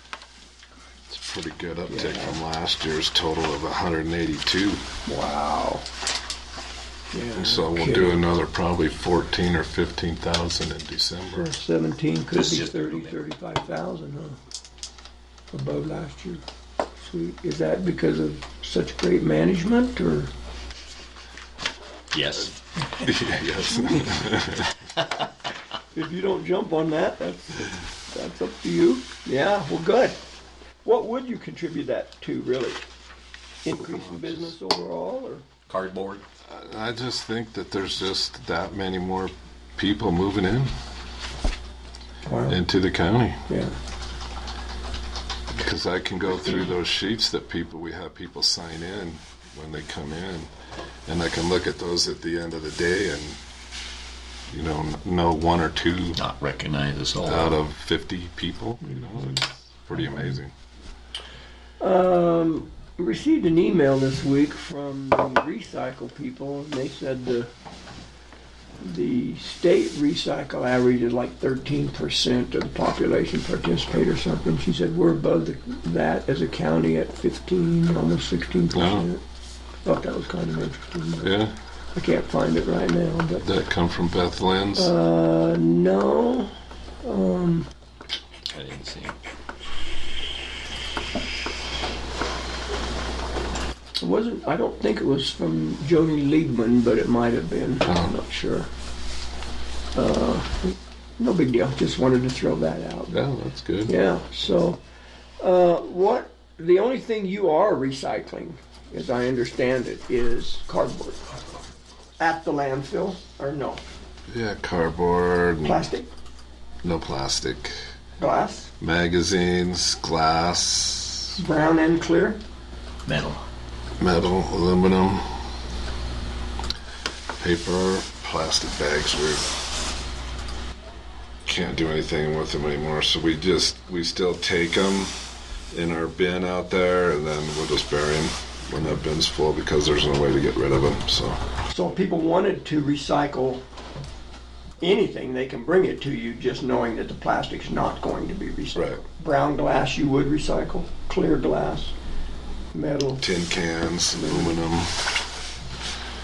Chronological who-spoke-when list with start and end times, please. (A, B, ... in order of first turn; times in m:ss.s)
0:01.1-0:04.8 A
0:01.9-0:02.4 B
0:05.1-0:05.9 B
0:07.1-0:08.2 B
0:07.4-0:11.5 A
0:11.3-0:14.4 B
0:12.3-0:13.2 C
0:15.5-0:16.4 B
0:17.0-0:20.3 B
0:22.1-0:22.6 C
0:22.9-0:24.7 A
0:23.7-0:24.2 B
0:25.9-0:30.2 B
0:30.8-0:32.8 B
0:33.6-0:35.4 B
0:33.8-0:34.5 A
0:35.7-0:36.2 C
0:36.5-0:40.7 A
0:42.2-0:42.6 B
0:42.5-0:43.5 A
0:43.5-0:43.8 B
0:45.5-0:50.5 A
0:51.1-0:53.4 A
0:54.5-0:56.2 A
0:56.2-0:57.6 C
0:57.2-1:00.5 A
1:01.8-1:07.5 B
1:08.8-1:19.2 B
1:18.7-1:19.1 A
1:19.8-1:21.3 B
1:21.2-1:21.6 A
1:22.0-1:23.5 B
1:23.4-1:24.9 A
1:24.8-1:26.5 B
1:27.0-1:27.7 B
1:28.5-1:29.2 C
1:34.0-1:38.7 B
1:37.8-1:38.2 A
1:39.9-1:43.2 B
1:43.1-1:43.9 A
1:43.9-1:44.8 B
1:45.4-1:51.2 B
1:52.2-1:53.8 B
1:54.3-1:55.9 A
1:55.6-1:56.1 B
1:56.8-1:57.8 A
1:58.2-1:58.7 B
1:58.8-2:01.4 A
2:01.4-2:02.4 B
2:03.0-2:03.4 C
2:04.0-2:05.4 A
2:07.4-2:09.5 A
2:11.4-2:21.4 A
2:21.7-2:23.6 B
2:24.8-2:31.9 B
2:28.8-2:29.0 A
2:32.7-2:33.3 B
2:33.2-2:35.2 A
2:34.1-2:34.6 B